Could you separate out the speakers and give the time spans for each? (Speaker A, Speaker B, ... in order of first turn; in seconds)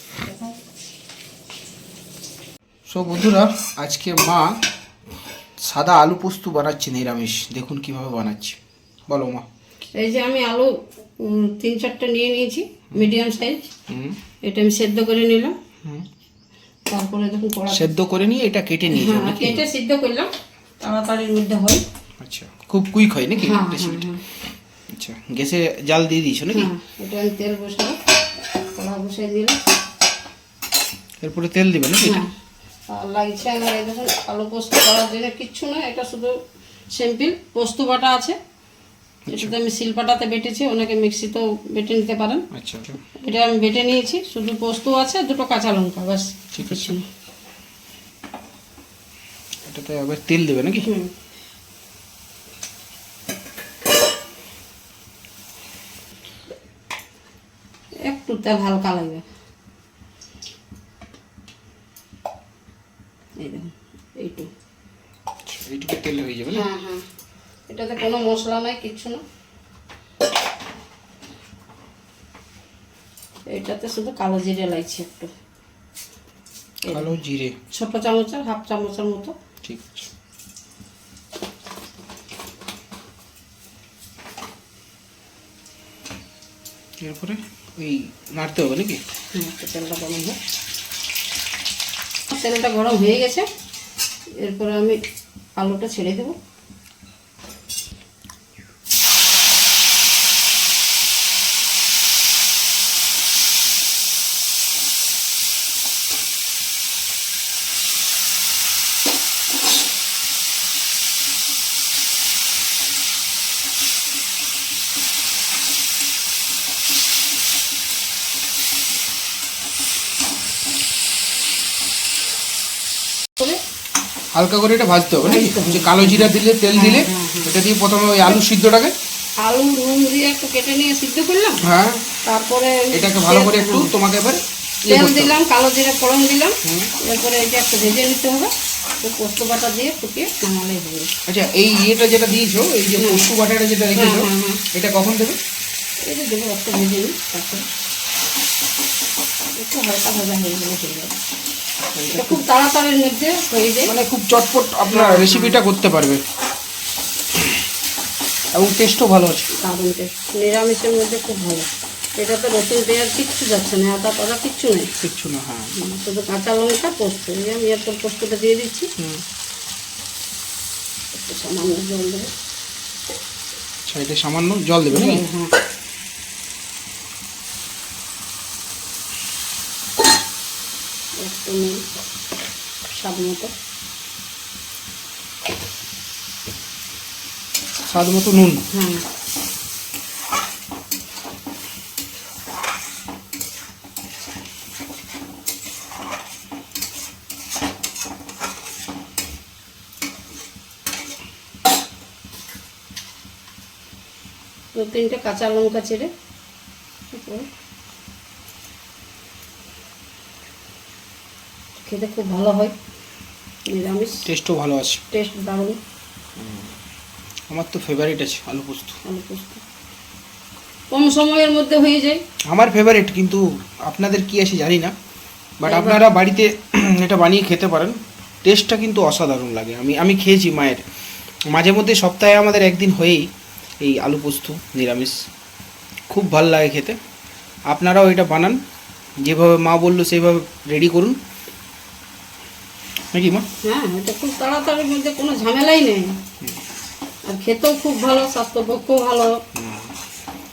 Speaker A: 2.9-4.6, 5.6-9.4, 13.9-14.2, 17.7-19.6, 22.2-24.1, 24.9-26.7, 31.2-32.2, 39.2-39.5, 42.5-43.0, 46.5-47.0, 49.6-50.9, 65.5-66.7, 76.9-77.5, 79.6-80.1, 87.0-89.0, 124.3-128.9, 131.6-132.1, 132.9-135.3, 136.6-136.9, 141.3-145.4, 151.8-152.4, 153.8-156.2, 158.5-159.5, 165.0-165.7, 169.0-169.2, 173.8-175.2, 187.8-188.6, 214.2-215.0, 216.4-216.7, 217.5-219.0, 222.5-224.9, 225.6-230.8, 231.5-233.3, 233.8-235.2, 236.1-237.0, 237.7-238.6, 239.2-241.2, 243.1-243.4, 249.5-249.9
Speaker B: 9.9-13.7, 14.4-15.6, 16.9-17.9, 18.9-21.8, 23.4-24.2, 26.5-28.0, 28.7-29.6, 32.0-32.3, 32.9-36.3, 36.9-38.4, 39.3-42.5, 43.2-47.0, 50.8-51.1, 58.0-59.2, 63.4-64.5, 66.5-67.0, 67.7-69.2, 73.5-75.3, 76.8-77.1, 77.7-79.3, 89.3-90.4, 92.3-93.5, 94.4-95.0, 95.6-96.3, 125.2-127.5, 129.4-131.6, 132.2-133.9, 134.9-141.1, 143.0-143.3, 143.9-144.6, 146.0-147.7, 149.6-151.1, 152.1-153.9, 154.9-155.6, 159.6-164.9, 165.7-168.9, 171.1-172.3, 174.9-175.5, 181.2-181.8, 182.9-183.5, 188.7-189.1, 204.7-206.1, 207.1-207.5, 211.8-212.7, 213.7-214.3, 215.1-215.8, 219.0-219.6, 220.9-222.2, 225.7-226.1, 243.6-246.2, 247.3-249.4